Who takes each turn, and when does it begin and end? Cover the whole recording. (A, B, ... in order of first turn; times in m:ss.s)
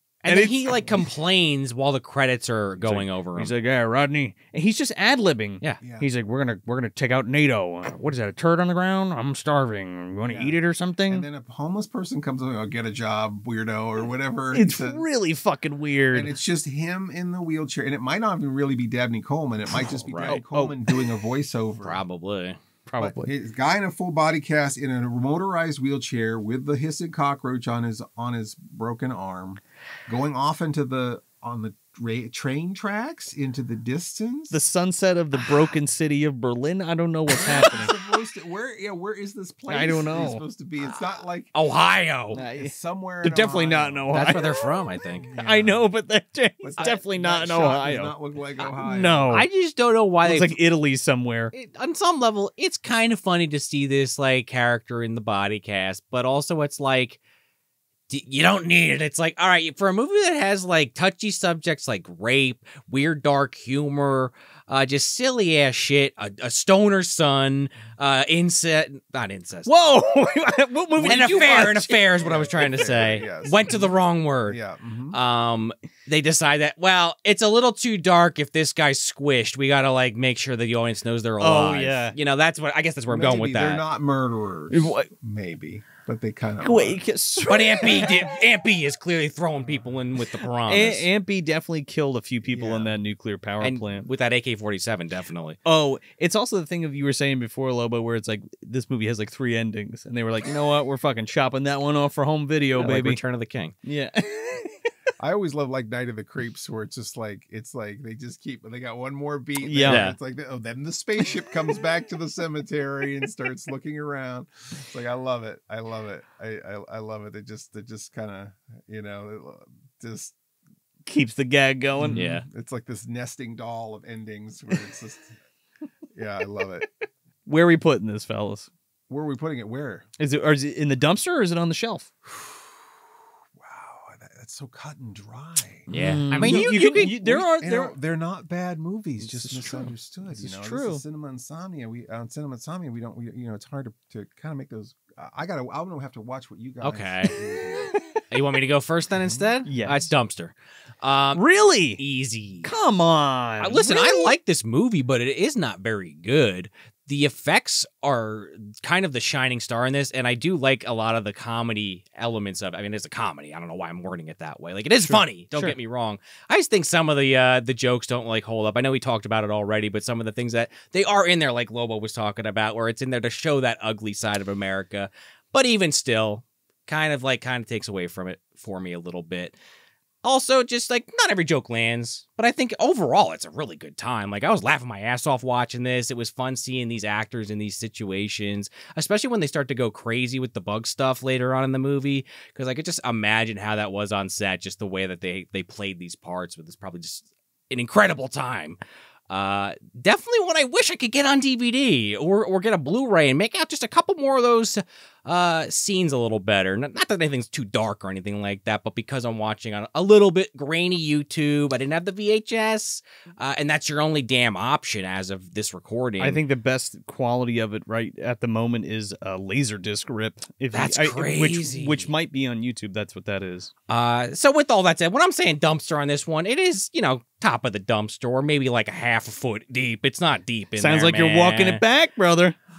0:00.2-0:03.5 A
0:00.3-0:00.7 B
0:02.8-0:11.3 B
0:05.8-0:06.1 C
0:10.3-0:10.6 C
0:11.1-0:15.0 C
0:14.5-0:16.3 B
0:16.1-0:22.0 C
0:20.1-0:20.4 A
0:20.3-0:20.8 B
0:21.8-0:22.6 A
0:22.9-0:23.3 B
0:23.0-0:34.6 C
0:34.5-0:37.9 B
0:37.4-0:41.5 C
0:39.7-0:40.4 B
0:41.5-0:42.4 A
0:42.3-0:44.4 B
0:42.4-0:44.3 C
0:44.1-0:45.4 A
0:45.2-0:45.8 C
0:45.4-0:48.1 B
0:46.6-0:49.3 C
0:48.8-0:49.4 B
0:49.1-0:50.6 A
0:50.2-0:51.5 B
0:51.5-0:57.2 A
0:58.1-1:09.7 A
1:09.7-1:12.0 B
1:11.0-1:13.9 C
1:11.0-1:14.6 A
1:14.4-1:15.2 C
1:15.1-1:23.8 A
1:21.4-1:22.2 B
1:23.1-1:27.0 C
1:24.7-1:25.1 B
1:26.6-1:28.2 B
1:27.5-1:31.1 A
1:30.7-1:34.1 B
1:32.5-1:32.9 C
1:33.6-1:35.6 A
1:35.6-1:43.2 B
1:42.8-1:43.7 A
1:43.8-1:44.9 B
1:45.2-2:00.4 C
1:49.6-1:50.0 B
1:49.9-1:50.2 A
2:01.1-2:02.2 B
2:02.0-2:05.4 C
2:02.1-2:02.4 A
2:06.1-2:06.9 C
2:07.4-2:08.7 B
2:09.1-2:10.1 C
2:10.2-2:12.1 B
2:12.2-2:27.9 C
2:15.9-2:18.0 B
2:15.9-2:17.1 A
2:19.2-2:21.0 B
2:26.8-2:27.4 A
2:28.3-2:31.4 A
2:29.1-2:29.5 C
2:29.7-2:30.1 B
2:31.4-2:32.0 B
2:32.0-2:32.7 A
2:32.6-2:34.3 B
2:33.6-2:59.6 A
2:45.0-2:45.8 B
3:00.2-3:18.8 A
3:19.3-3:36.4 A
3:36.2-3:43.7 B
3:40.7-3:42.1 A
3:43.9-3:51.8 A
3:50.8-3:52.6 B